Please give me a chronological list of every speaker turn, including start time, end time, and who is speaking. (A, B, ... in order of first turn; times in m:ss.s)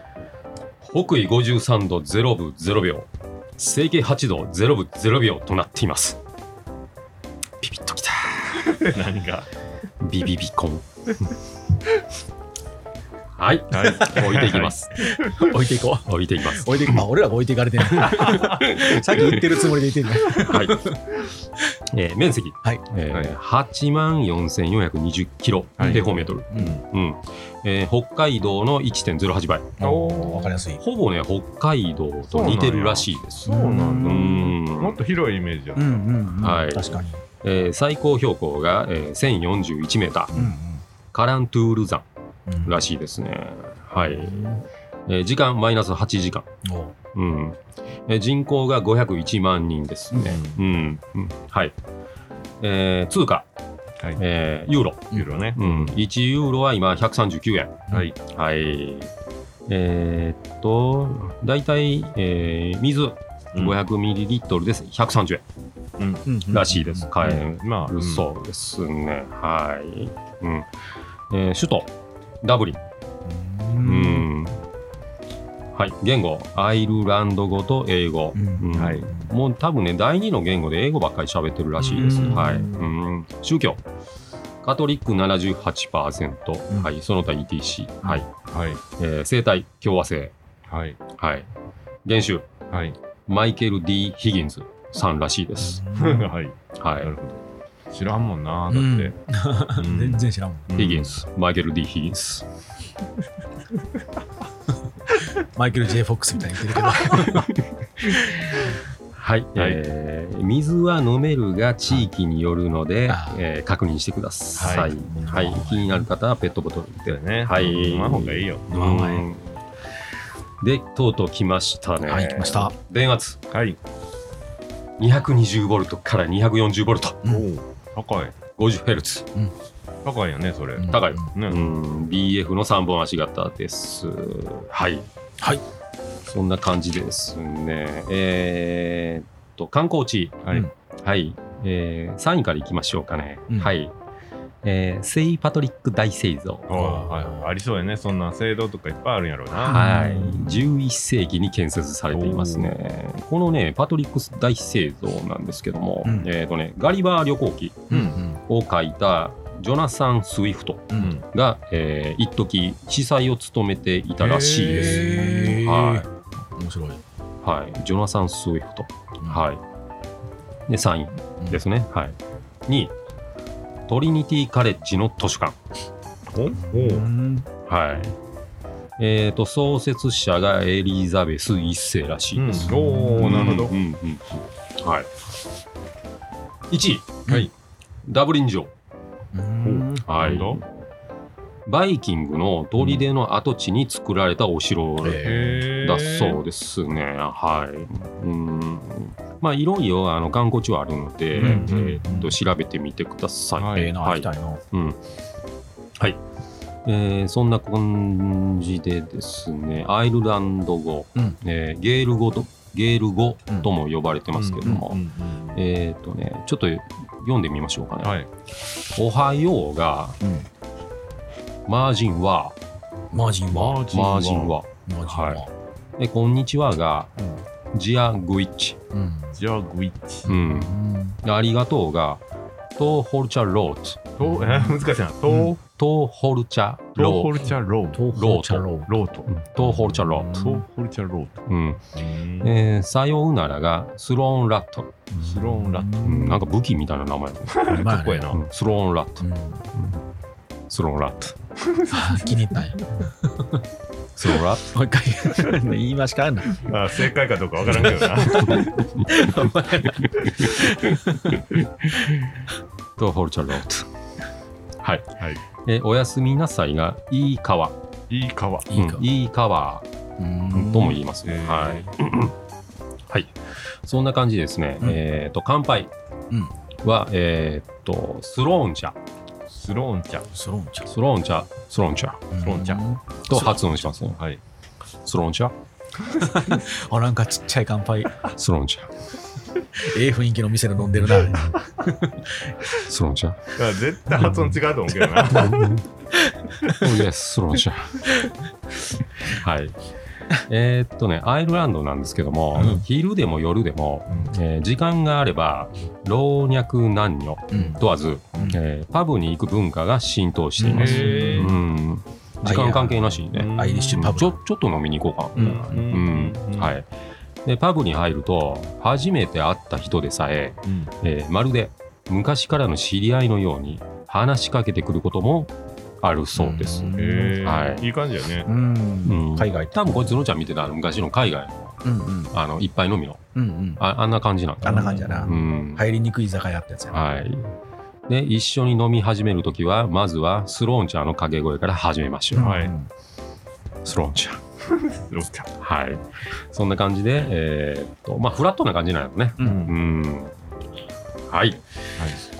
0:00.8-0:06.2 A
0:07.6-0:08.8 A
0:08.6-0:09.5 B
0:10.0-0:10.8 A
0:13.4-0:15.1 A
0:13.7-0:14.8 B
0:13.9-0:14.4 C
0:15.0-0:21.3 C
0:16.0-0:17.0 A
0:18.0-0:19.5 A
0:18.1-0:18.6 B
0:20.3-0:20.9 A
0:21.9-0:29.8 A
0:25.8-0:26.7 B
0:25.8-0:26.8 C
0:29.8-0:30.8 C
0:29.8-0:30.6 B
0:30.8-0:35.0 A
0:32.3-0:36.1 B
0:33.4-0:34.4 C
0:35.8-0:37.2 C
0:36.4-0:40.5 A
0:40.3-0:40.8 C
0:41.1-0:42.0 A
0:42.5-0:42.8 C
0:42.6-0:44.5 A
0:44.1-0:44.6 C
0:45.1-0:46.5 A
0:46.6-0:46.9 C
0:47.1-0:51.7 A
0:50.2-0:50.6 B
0:52.6-0:53.5 A
0:54.2-0:59.1 A
0:55.1-0:55.4 C
0:55.1-0:55.9 B
0:59.7-1:05.4 A
1:06.0-1:06.2 B
1:06.2-1:07.1 C
1:06.5-1:10.7 A
1:07.2-1:08.2 B
1:11.3-1:12.8 A
1:13.3-1:14.3 C
1:13.8-1:14.6 A
1:15.7-1:23.8 A
1:18.3-1:19.3 C
1:18.8-1:19.1 B
1:21.8-1:22.8 B
1:22.0-1:22.8 C
1:24.6-1:28.3 A
1:28.5-1:28.8 B
1:29.0-1:30.3 A
1:30.7-1:31.0 B
1:31.1-1:31.5 A
1:32.0-1:32.5 A
1:33.3-1:35.9 A
1:35.6-1:36.3 C
1:36.0-1:37.4 B
1:36.8-1:37.1 A
1:37.9-1:39.1 B
1:38.7-1:40.7 C
1:39.7-1:41.1 B
1:40.8-1:42.4 A
1:45.4-1:47.5 C
1:47.1-1:47.5 A
1:49.1-1:59.6 A
1:53.1-1:53.4 C
1:54.6-1:56.0 C
1:54.6-1:54.9 B
1:57.1-1:58.9 B
1:58.7-1:59.2 C
2:00.6-2:03.4 A
2:02.0-2:02.7 C
2:03.5-2:03.8 B
2:05.0-2:07.2 A
2:07.2-2:08.3 B
2:08.6-2:09.3 A
2:10.0-2:11.7 B
2:10.8-2:11.3 C
2:10.9-2:15.1 A
2:16.3-2:20.4 A
2:21.0-2:23.9 A
2:24.6-2:26.7 A
2:26.7-2:29.8 B
2:26.7-2:27.5 C
2:29.6-2:30.6 C
2:29.6-2:46.1 A
2:32.1-2:32.7 B
2:36.0-2:36.3 C
2:37.9-2:38.4 C
2:37.9-2:38.2 B
2:40.9-2:41.2 C
2:41.0-2:41.2 B
2:44.2-2:45.5 B
2:44.3-2:47.0 C
2:47.4-2:49.6 A
2:50.7-2:52.9 A
2:53.9-2:55.6 A
2:56.3-2:57.1 B
2:56.5-2:57.5 C
2:57.6-2:58.1 A
2:59.0-3:05.1 A
3:02.4-3:03.8 B
3:02.6-3:03.5 C
3:06.7-3:07.4 A
3:08.0-3:08.7 A
3:09.3-3:10.1 C
3:09.6-3:10.6 B
3:10.0-3:10.6 A
3:11.6-3:25.0 A
3:12.8-3:13.0 B
3:15.0-3:15.6 C
3:15.2-3:16.4 B
3:21.4-3:22.1 B
3:21.4-3:22.3 C
3:23.6-3:24.0 B
3:23.7-3:24.6 C
3:26.8-3:38.2 A
3:34.3-3:35.6 B
3:38.0-3:38.3 B
3:38.9-3:40.2 A
3:40.2-3:40.5 C
3:41.7-3:42.6 A
3:43.1-3:43.9 C
3:43.5-3:44.6 B
3:43.6-3:45.4 A
3:44.9-3:45.5 C
3:46.0-3:47.1 A
3:47.7-3:48.8 A
3:48.9-3:49.4 C
3:49.3-3:50.4 B
3:50.3-3:52.2 A
3:50.3-3:51.2 C
3:52.7-3:54.1 A
3:54.2-3:55.6 B
3:54.2-3:54.7 C
3:55.3-3:55.5 C
3:55.8-3:57.3 A
3:57.0-3:58.1 B
3:57.9-3:58.9 C
3:58.1-3:58.7 A
3:58.9-3:59.3 B
3:59.3-4:00.4 A
3:59.6-4:00.6 C
4:00.3-4:02.5 B
4:01.5-4:01.8 A
4:02.4-4:05.1 A
4:05.2-4:06.4 C
4:05.2-4:06.3 B
4:06.0-4:07.6 A
4:07.5-4:08.4 B
4:07.6-4:08.3 C
4:08.3-4:09.2 A
4:09.2-4:09.7 C
4:09.7-4:10.0 A
4:10.7-4:11.4 A
4:11.7-4:12.3 B
4:11.9-4:13.6 C
4:14.2-4:14.7 A
4:14.3-4:16.7 C
4:16.6-4:18.8 B
4:17.7-4:21.4 C
4:19.0-4:19.2 A
4:19.8-4:23.9 A
4:24.8-4:27.8 A
4:28.1-4:28.7 B
4:28.7-4:29.0 C
4:28.7-4:29.9 A
4:30.2-4:31.0 C
4:30.5-4:32.3 A
4:31.2-4:31.9 B
4:33.1-4:35.9 A
4:36.8-4:39.0 A
4:39.5-4:40.2 B
4:40.3-4:40.9 C
4:40.9-4:42.2 A
4:42.3-4:43.6 C
4:42.4-4:42.8 B
4:43.3-4:44.2 A
4:45.0-4:45.5 A
4:46.2-4:48.2 C
4:48.3-4:48.9 A
4:49.7-4:52.6 C
4:52.8-4:53.5 A
4:53.5-4:55.7 B
4:55.3-4:55.9 A
4:56.1-4:56.9 C
4:56.7-4:58.1 A
4:58.1-4:58.3 C
4:59.2-4:59.8 A
5:00.3-5:16.9 A
5:07.5-5:07.8 C
5:10.6-5:11.5 C
5:10.7-5:11.5 B
5:12.4-5:14.4 C
5:13.3-5:14.2 B
5:15.4-5:16.7 B
5:15.4-5:16.0 C
5:17.4-5:27.9 A
5:20.6-5:20.9 B
5:26.3-5:27.4 C
5:27.0-5:28.5 B
5:28.4-5:30.2 C
5:29.0-5:33.2 A
5:31.8-5:32.3 C
5:33.3-5:33.8 C
5:33.8-5:35.8 A
5:34.6-5:37.2 C
5:34.7-5:35.3 B
5:36.9-5:37.5 A
5:38.1-5:42.6 A
5:42.3-5:42.9 C
5:42.4-5:42.7 B
5:43.8-5:44.4 A
5:44.6-5:45.5 B
5:45.6-5:50.4 A
5:49.4-5:49.8 B
5:51.3-5:51.6 A